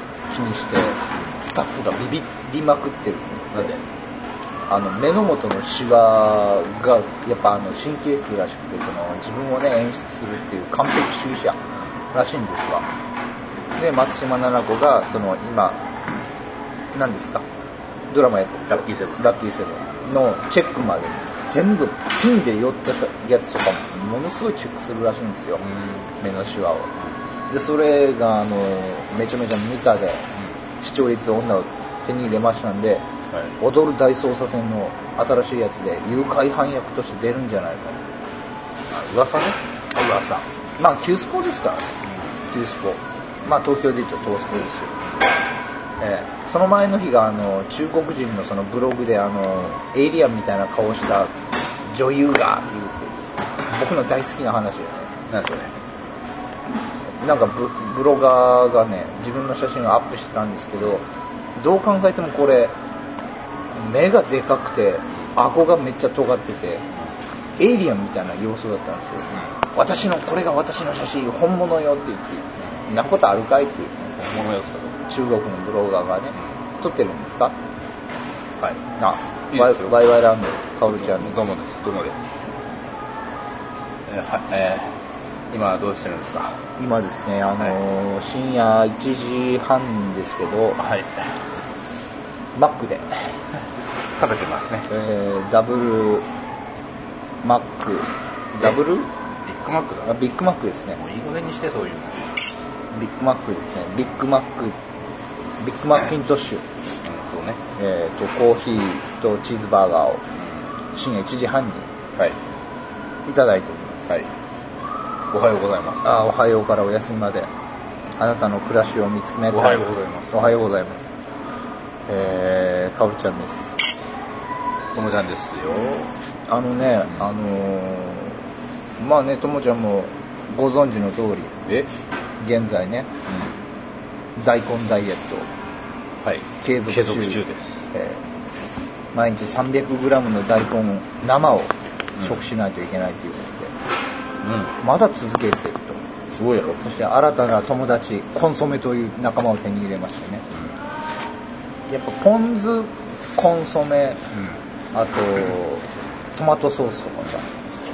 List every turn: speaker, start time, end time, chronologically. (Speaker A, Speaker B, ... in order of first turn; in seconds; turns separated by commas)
Speaker A: 0.3-3.7, Speaker B: 3.5-3.8, Speaker A: 4.7-11.6, Speaker A: 12.1-12.9, Speaker A: 13.8-15.8, Speaker A: 16.9-17.4, Speaker A: 18.1-25.6, Speaker B: 18.7-19.2, Speaker B: 25.6-26.1, Speaker A: 26.2-26.9, Speaker A: 27.5-30.3, Speaker A: 30.8-33.1, Speaker A: 33.6-38.0, Speaker B: 38.9-40.5, Speaker A: 40.8-41.9, Speaker A: 42.5-45.0, Speaker A: 46.0-51.3, Speaker A: 51.9-55.1, Speaker B: 55.3-55.7, Speaker A: 57.2-61.1, Speaker A: 61.6-62.7, Speaker A: 63.7-66.9, Speaker A: 67.6-74.2, Speaker B: 74.2-75.0, Speaker A: 75.1-77.5, Speaker A: 79.0-81.4, Speaker B: 79.5-80.0, Speaker B: 80.9-82.2, Speaker B: 84.1-85.0, Speaker B: 85.5-86.6, Speaker A: 86.8-90.8, Speaker B: 90.8-91.2, Speaker A: 92.5-93.3, Speaker B: 94.2-94.9, Speaker A: 94.9-96.3, Speaker A: 97.4-99.1, Speaker B: 99.5-100.2, Speaker A: 100.1-101.0, Speaker B: 101.0-102.3, Speaker A: 102.9-104.8, Speaker A: 105.6-106.6, Speaker B: 107.0-107.6, Speaker A: 107.8-110.2, Speaker A: 110.9-111.9, Speaker A: 113.3-114.1, Speaker B: 115.3-116.1, Speaker A: 116.0-117.5, Speaker A: 118.2-121.1, Speaker B: 119.5-120.5, Speaker A: 122.1-123.8, Speaker B: 124.9-126.1, Speaker A: 126.5-128.4, Speaker A: 129.0-131.5, Speaker A: 132.4-133.1, Speaker B: 133.3-133.6, Speaker A: 134.4-135.5, Speaker B: 136.2-137.8, Speaker A: 136.6-138.2, Speaker A: 139.1-143.7, Speaker B: 144.4-144.8, Speaker A: 144.8-146.0, Speaker B: 146.3-146.9, Speaker A: 146.8-150.4, Speaker A: 151.9-154.2, Speaker A: 154.9-157.5